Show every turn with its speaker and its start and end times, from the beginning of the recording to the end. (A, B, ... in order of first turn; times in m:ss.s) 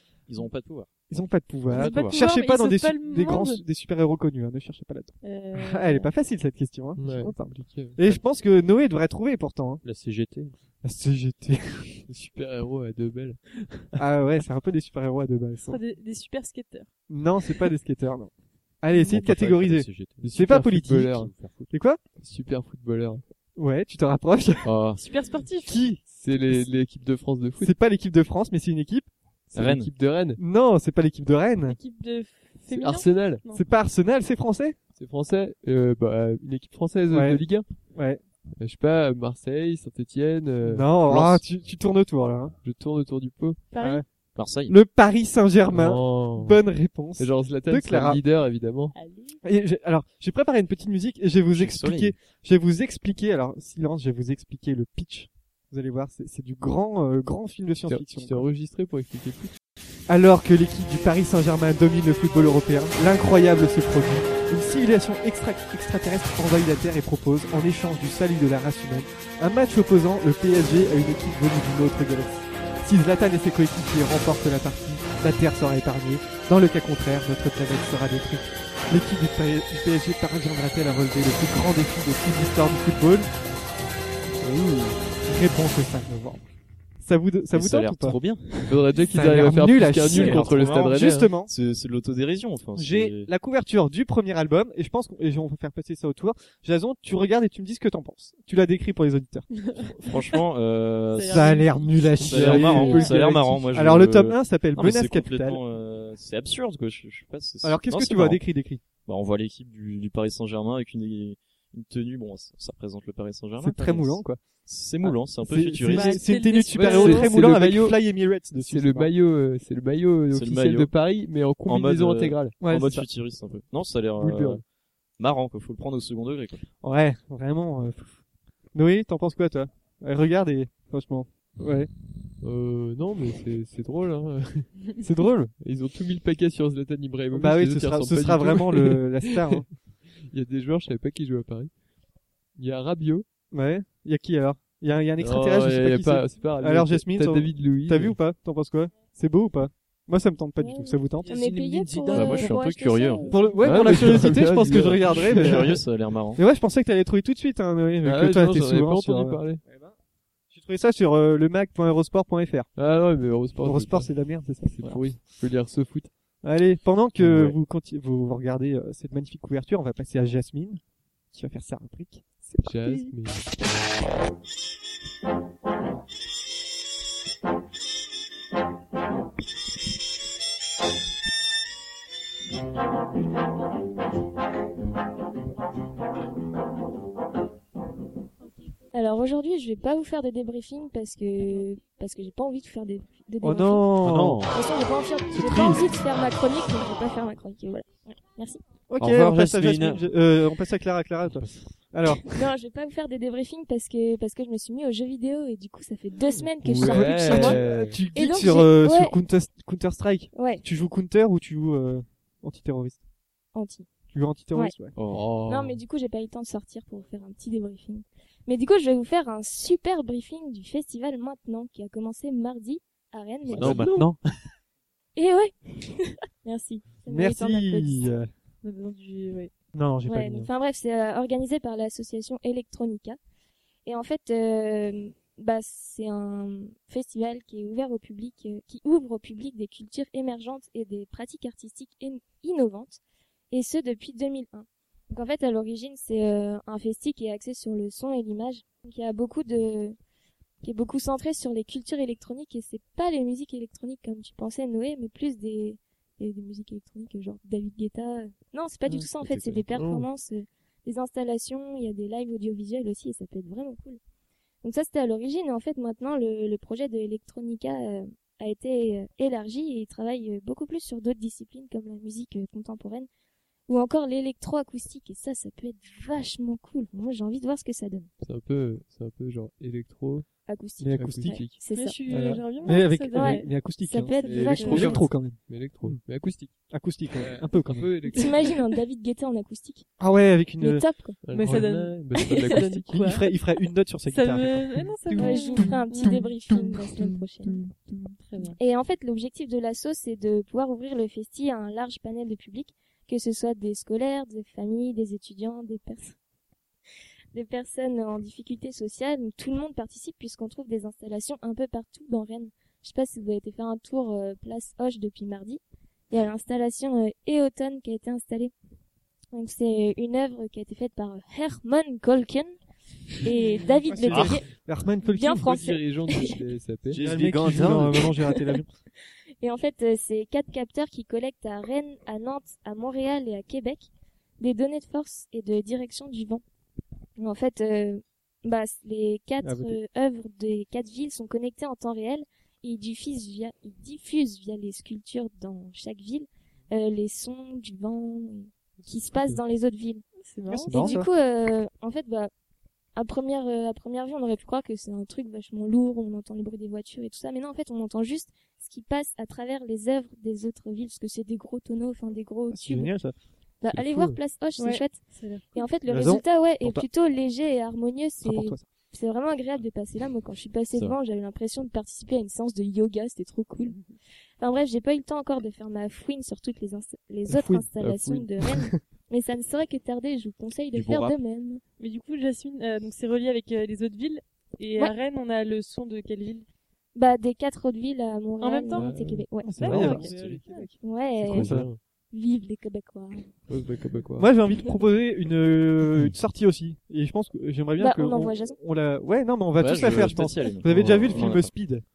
0:00.3-0:00.9 A
0:01.1-0:09.8 B
0:01.7-0:02.2 A
0:01.7-0:03.6 C
0:05.2-0:06.1 C
0:07.0-0:08.0 D
0:09.8-0:10.5 E
0:10.8-0:12.0 B
0:12.1-0:14.0 D
0:14.0-0:15.8 B
0:15.6-0:16.9 C
0:17.1-0:22.0 B
0:19.0-0:20.3 E
0:20.2-0:21.3 D
0:21.2-0:21.7 E
0:22.2-0:23.2 D
0:23.6-0:24.7 B
0:24.6-0:25.1 A
0:25.0-0:25.8 C
0:25.6-0:26.7 B
0:26.1-0:27.7 D
0:27.6-0:29.1 B
0:29.5-0:29.9 A
0:29.5-0:30.4 D
0:30.4-0:31.8 B
0:31.6-0:33.6 C
0:32.7-0:33.4 D
0:33.5-0:34.8 B
0:35.0-0:37.6 D
0:37.1-0:37.4 B
0:37.9-0:38.2 B
0:38.6-0:41.4 D
0:40.6-0:42.6 B
0:42.6-0:43.6 D
0:43.7-0:44.0 C
0:43.8-0:44.0 B
0:44.4-0:44.8 A
0:44.7-0:48.2 B
0:45.7-0:46.6 D
0:47.2-0:48.9 D
0:48.9-0:49.4 C
0:49.4-0:58.4 B
0:51.5-0:52.1 A
0:57.9-0:59.5 D
1:00.1-1:23.3 B
1:24.4-1:25.0 D
1:25.2-1:26.4 B
1:27.0-1:28.2 B
1:27.5-1:28.8 A
1:28.6-1:31.3 D
1:29.1-1:31.5 B
1:30.0-1:31.0 A
1:31.5-1:33.3 A
1:32.8-1:39.5 B
1:39.5-1:40.4 C
1:39.8-1:48.4 A
1:41.1-1:41.7 C
1:41.3-1:45.6 B
1:42.2-1:43.6 D
1:42.7-1:43.1 C
1:47.6-1:48.8 B
1:49.0-1:56.2 A
1:53.6-1:54.4 B
1:55.0-1:59.1 B
1:55.9-1:57.4 C
1:56.7-1:58.0 D
1:58.5-2:02.6 D
2:00.3-2:00.9 A
2:01.7-2:04.6 A
2:02.6-2:03.1 B
2:04.2-2:04.6 D
2:05.2-2:06.6 A
2:06.8-2:08.2 B
2:08.7-2:11.9 B
2:12.4-2:14.8 D
2:15.0-2:15.5 B
2:15.6-2:19.4 D
2:17.3-2:19.7 B
2:20.3-2:21.7 D
2:22.6-2:23.2 D
2:23.5-2:31.3 B
2:25.2-2:28.2 D
2:30.6-2:33.5 F
2:31.3-2:32.6 E
2:32.1-2:33.3 A
2:33.3-2:39.9 B
2:33.6-2:35.5 D
2:35.1-2:36.4 A
2:38.0-2:39.6 D
2:40.5-2:42.7 B
2:42.8-2:44.1 D
2:43.6-2:45.0 B
2:44.7-2:46.1 D
2:46.4-2:50.8 B
2:47.2-2:47.6 D
2:51.3-2:53.1 B
2:52.6-2:53.5 D
3:08.9-3:14.0 F
3:13.4-3:14.4 B
3:14.0-3:14.6 E
3:14.5-3:18.6 F
3:15.3-3:15.8 E
3:18.9-3:22.5 B
3:19.0-3:20.0 E
3:21.3-3:21.6 E
3:22.3-3:27.6 F
3:26.6-3:28.0 D
3:26.8-3:33.0 B
3:28.1-3:29.2 F
3:30.3-3:30.6 F
3:33.5-3:33.9 F
3:34.1-3:34.9 B
3:35.0-3:35.2 A
3:35.1-3:35.8 D
3:35.4-3:44.0 F
3:43.5-3:44.2 E
3:43.5-3:44.0 D
3:45.2-3:48.1 F
3:47.1-3:48.3 B
3:48.6-3:49.5 C
3:49.7-3:50.5 B
3:50.1-3:53.2 F
3:53.8-4:03.0 F
4:03.5-4:10.0 F
4:10.6-4:24.0 F
4:19.7-4:20.1 D
4:24.6-4:33.1 F
4:33.7-4:38.1 F
4:38.2-4:40.3 D
4:40.5-4:42.0 F
4:40.8-4:41.4 B
4:40.9-4:41.6 D
4:41.7-4:43.5 C
4:42.1-4:46.0 B
4:42.5-4:45.0 F
4:44.2-4:46.5 D
4:44.2-4:44.9 C
4:46.7-4:47.9 B
4:47.2-4:48.5 D
4:48.1-4:49.8 F
4:50.0-4:50.8 B
4:50.6-4:51.3 F
4:51.2-4:52.9 D
4:51.3-4:53.3 C
4:51.4-4:51.6 B
4:52.8-4:54.6 B
4:54.1-4:56.3 C
4:55.0-4:55.6 D
4:55.2-4:57.7 F
4:58.2-4:58.6 C
4:58.6-5:06.2 F
5:07.3-5:18.5 F
5:19.3-5:22.5 F
5:23.2-5:24.5 F
5:23.9-5:25.5 B
5:25.0-5:26.4 F
5:25.4-5:27.0 D
5:26.9-5:28.1 E
5:27.0-5:28.7 B
5:29.4-5:33.9 F
5:34.4-5:36.4 F
5:37.2-5:50.0 F
5:39.4-5:39.8 B
5:50.2-5:51.0 C
5:50.5-5:51.1 B
5:50.7-5:52.3 F
5:53.0-6:02.9 F
6:02.5-6:03.1 B
6:03.6-6:13.8 F
6:03.7-6:04.2 D
6:04.6-6:05.7 C
6:05.8-6:06.8 B
6:08.2-6:08.6 B
6:14.4-6:21.6 F
6:17.3-6:17.7 B
6:17.8-6:18.3 D
6:20.7-6:21.1 A
6:21.8-6:26.4 C
6:26.9-6:29.9 F
6:28.4-6:29.1 C
6:28.7-6:31.8 D
6:29.4-6:30.1 B
6:29.6-6:30.7 C
6:30.1-6:30.3 A
6:30.8-6:33.3 F
6:31.3-6:31.7 B
6:33.5-6:34.3 D
6:34.2-6:41.8 B
6:37.8-6:38.6 F
6:39.6-6:41.5 A